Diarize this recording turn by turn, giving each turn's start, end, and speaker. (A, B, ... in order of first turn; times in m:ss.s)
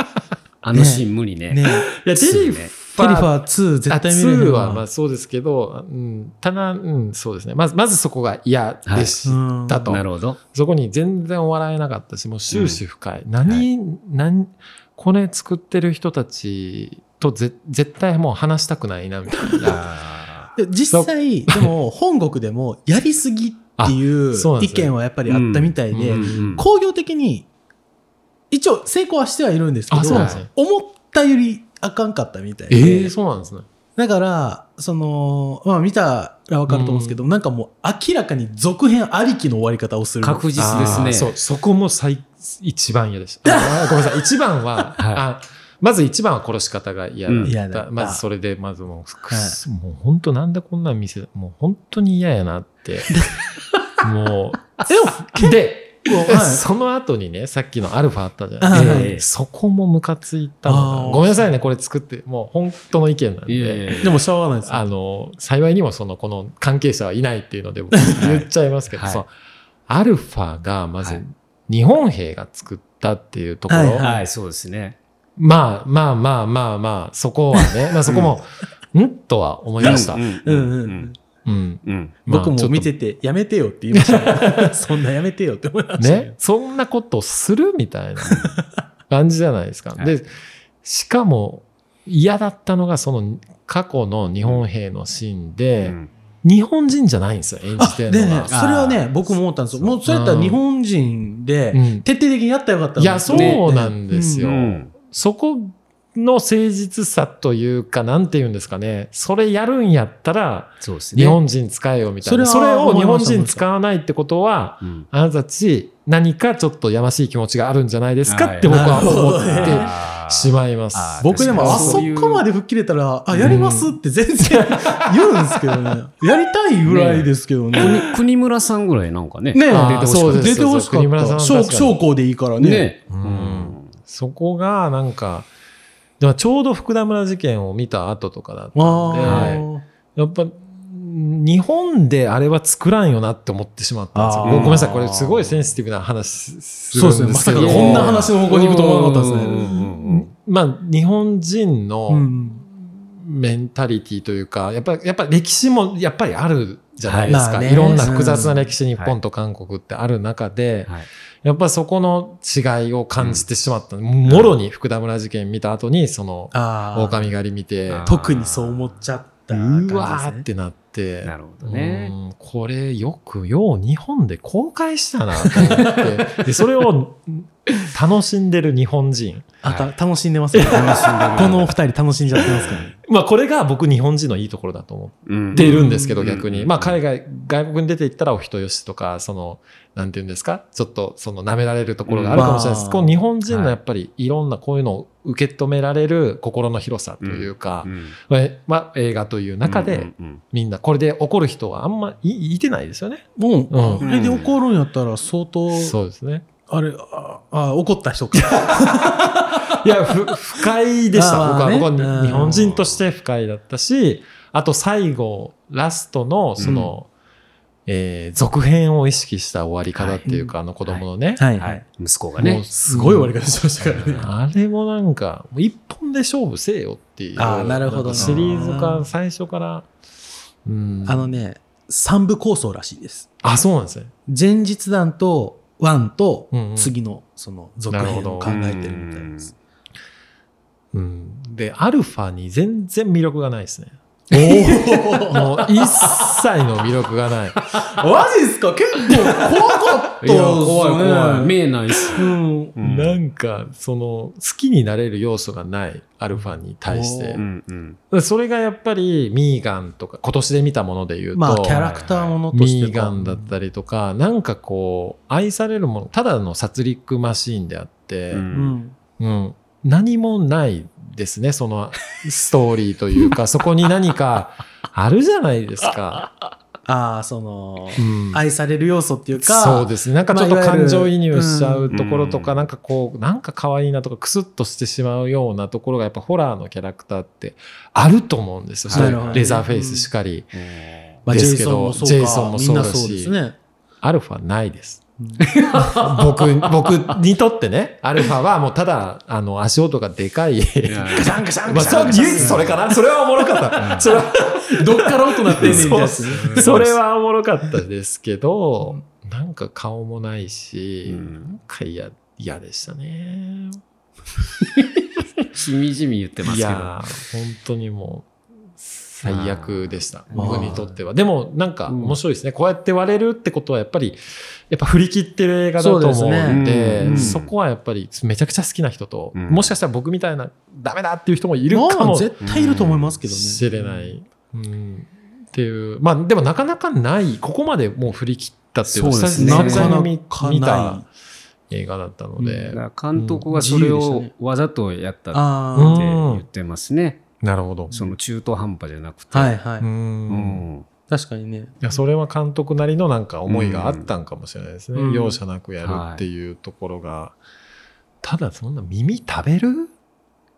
0:00.6-0:01.6 A
0:00.7-0:02.0 B
0:02.0-0:03.3 C
0:02.2-0:02.7 A
0:03.0-0:04.8 B
0:03.9-0:19.9 C
0:08.9-0:09.1 A
0:09.2-0:09.9 B
0:09.9-0:10.4 A
0:12.5-0:12.8 A
0:19.6-0:20.5 A
0:20.6-0:27.5 B
0:20.9-0:21.7 C
0:23.8-0:24.9 C
0:25.3-0:26.6 A
0:25.9-0:26.6 C
0:28.5-0:33.1 B
0:29.9-0:30.5 C
0:30.1-0:30.4 A
0:32.7-0:33.7 C
0:34.0-0:41.2 B
0:36.7-0:37.2 C
0:40.2-0:41.3 A
0:40.6-0:53.2 C
0:43.4-0:44.0 B
0:45.0-0:45.2 A
0:47.3-0:47.6 A
0:47.4-0:48.2 B
0:49.3-0:49.6 B
0:54.0-1:04.0 C
0:54.9-0:56.7 B
0:58.6-0:59.1 B
0:58.7-0:59.3 A
1:00.6-1:01.5 B
1:03.5-1:04.2 A
1:04.0-1:04.9 B
1:04.6-1:09.3 C
1:08.0-1:08.3 B
1:08.2-1:09.2 A
1:09.9-1:14.0 C
1:13.7-1:14.2 B
1:14.0-1:15.0 A
1:15.4-1:20.2 C
1:18.1-1:18.3 A
1:19.8-1:21.1 A
1:19.8-1:21.1 B
1:21.4-1:22.9 C
1:21.8-1:22.1 A
1:22.3-1:26.3 B
1:23.9-1:24.8 C
1:26.0-1:28.6 C
1:28.2-1:28.6 A
1:29.1-1:30.3 C
1:30.8-1:38.6 C
1:35.8-1:36.1 A
1:37.8-1:44.5 B
1:38.5-1:39.0 A
1:39.8-1:40.6 C
1:41.7-1:42.1 C
1:43.0-2:02.1 C
1:43.3-1:43.6 A
1:44.4-1:44.9 A
1:50.8-1:51.4 A
1:52.2-1:53.6 B
1:54.8-1:55.1 A
1:58.3-2:02.4 A
1:58.6-1:59.9 B
2:01.2-2:08.1 B
2:03.4-2:05.3 C
2:06.9-2:10.6 A
2:09.5-2:12.9 B
2:09.7-2:12.0 C
2:12.6-2:13.9 A
2:13.1-2:15.5 C
2:16.2-2:28.3 C
2:18.7-2:19.8 B
2:19.2-2:19.6 A
2:24.1-2:25.6 B
2:24.4-2:24.9 A
2:26.9-2:29.9 B
2:27.5-2:30.3 A
2:30.3-2:48.1 C
2:32.1-2:32.6 B
2:37.0-2:37.4 A
2:37.3-2:38.7 B
2:43.2-2:43.4 A
2:44.3-2:44.5 A
2:46.5-2:47.3 B
2:47.9-2:49.0 A
2:48.0-2:50.5 B
2:49.5-2:59.5 C
2:51.2-2:52.1 A
2:59.6-3:02.9 B
2:59.6-2:59.9 A
3:00.5-3:01.1 C
3:00.6-3:01.8 A
3:02.4-3:24.0 C
3:02.4-3:02.9 A
3:05.3-3:07.0 A
3:05.5-3:06.2 B
3:12.1-3:12.5 A
3:12.3-3:13.2 B
3:13.5-3:13.8 A
3:17.2-3:18.2 A
3:19.6-3:20.4 A
3:23.4-3:26.0 B
3:24.0-3:24.6 A
3:25.7-3:26.4 C
3:26.7-3:30.4 B
3:28.3-3:37.1 C
3:31.1-3:32.8 B
3:36.6-3:36.9 A
3:36.6-3:36.9 B
3:37.9-3:41.4 C
3:40.0-3:40.3 A
3:40.2-3:40.5 B
3:41.4-3:41.8 B
3:41.6-3:42.7 A
3:42.4-3:43.4 C
3:42.5-3:44.3 B
3:43.8-3:44.3 A
3:44.2-3:49.9 C
3:47.4-3:49.1 B
3:48.1-3:48.5 A
3:50.6-3:51.4 C
3:51.0-3:53.3 B
3:53.4-3:54.1 C
3:54.3-3:59.4 B
3:56.5-3:56.9 C
3:57.9-3:58.6 C
3:58.4-3:59.5 A
4:00.9-4:07.6 C
4:04.3-4:06.4 B
4:07.8-4:11.6 B
4:10.2-4:13.2 A
4:12.1-4:12.8 B
4:12.8-4:17.4 C
4:16.9-4:17.4 B
4:17.4-4:18.0 A
4:18.1-4:22.0 C
4:21.4-4:23.5 B
4:21.7-4:22.4 A
4:22.5-4:28.5 C
4:28.3-4:28.8 A
4:28.5-4:29.0 B
4:29.2-4:36.3 C
4:36.9-4:41.9 B
4:38.0-4:38.4 C
4:39.4-4:50.5 C
4:41.9-4:42.6 A
4:48.9-4:49.5 A
4:48.9-4:50.1 B
4:50.5-4:51.2 A
4:51.3-4:53.4 C
4:51.3-4:53.6 B
4:54.0-4:55.0 C
4:55.2-4:55.4 B
4:55.5-4:56.9 A
4:55.8-5:13.8 C
5:00.9-5:02.8 A
5:01.1-5:02.8 B
5:03.8-5:04.1 A
5:04.7-5:06.9 B
5:05.6-5:06.9 A
5:11.1-5:11.5 A
5:15.5-5:17.0 A
5:16.4-5:41.0 C
5:19.2-5:20.9 A
5:20.3-5:20.8 B
5:21.9-5:22.2 A
5:25.8-5:27.4 B
5:26.5-5:27.5 A
5:29.3-5:29.7 A
5:31.7-5:33.9 B
5:32.4-5:33.0 A
5:38.9-5:40.0 A
5:39.3-5:41.0 B
5:41.7-5:43.4 C
5:42.4-5:42.7 B
5:42.7-5:47.2 A
5:43.5-5:44.3 B
5:45.3-5:46.1 B
5:45.8-5:46.4 C
5:47.4-5:48.0 C
5:47.9-5:49.6 A
5:49.3-5:49.9 B
5:49.8-5:50.6 C
5:50.3-5:50.9 A
5:51.1-5:51.8 B
5:51.8-5:57.4 C
5:53.5-5:54.1 A
5:55.0-5:55.4 B
5:55.8-5:56.2 A
5:58.2-5:59.9 C